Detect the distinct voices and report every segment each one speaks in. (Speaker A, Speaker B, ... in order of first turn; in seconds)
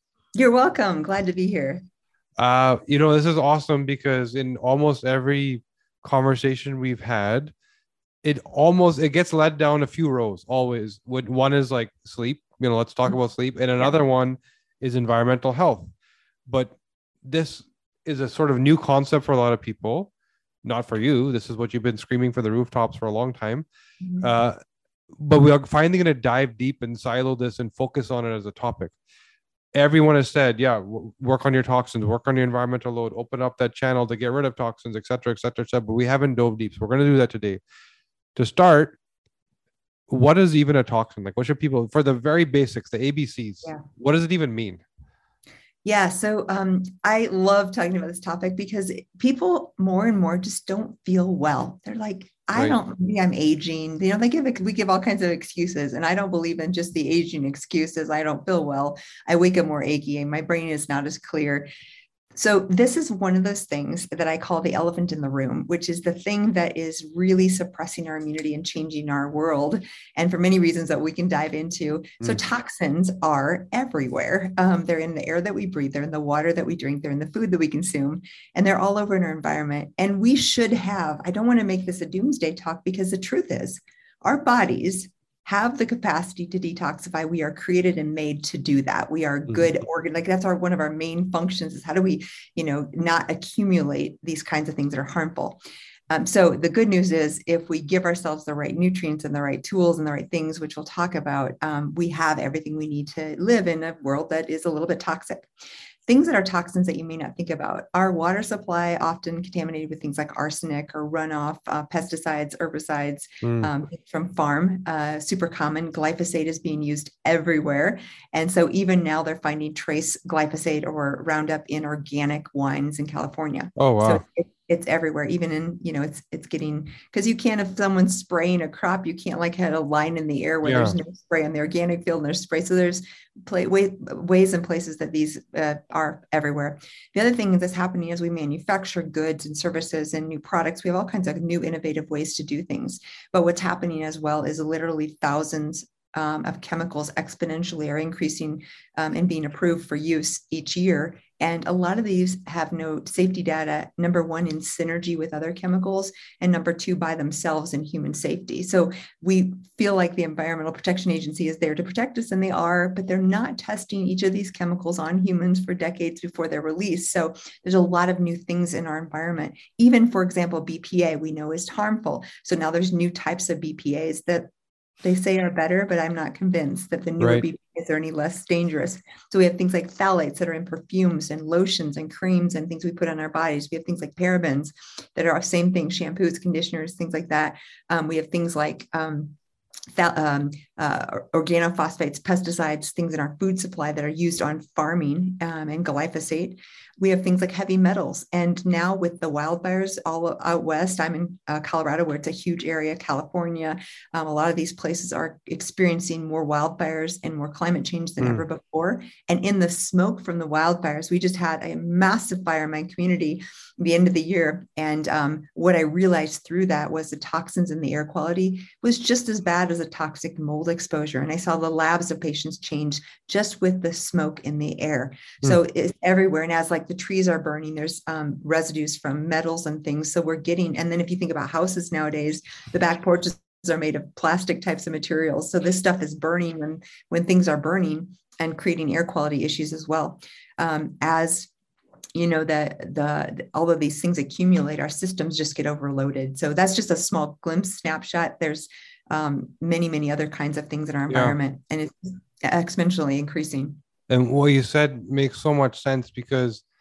Speaker A: 0.4-1.8, 24.0-24.3, 45.9-61.7, 62.4-105.5, 106.1-174.5, 175.0-189.3, 189.9-241.5, 242.2-253.8
Speaker B: 2.4-7.5, 8.2-15.9, 16.5-20.1, 20.6-23.7, 24.2-24.6, 25.2-28.9, 29.7-37.6, 38.4-39.0, 40.1-44.8, 113.4-113.7, 123.8-124.2, 130.6-130.9, 177.2-177.4, 251.1-251.3, 254.1-256.6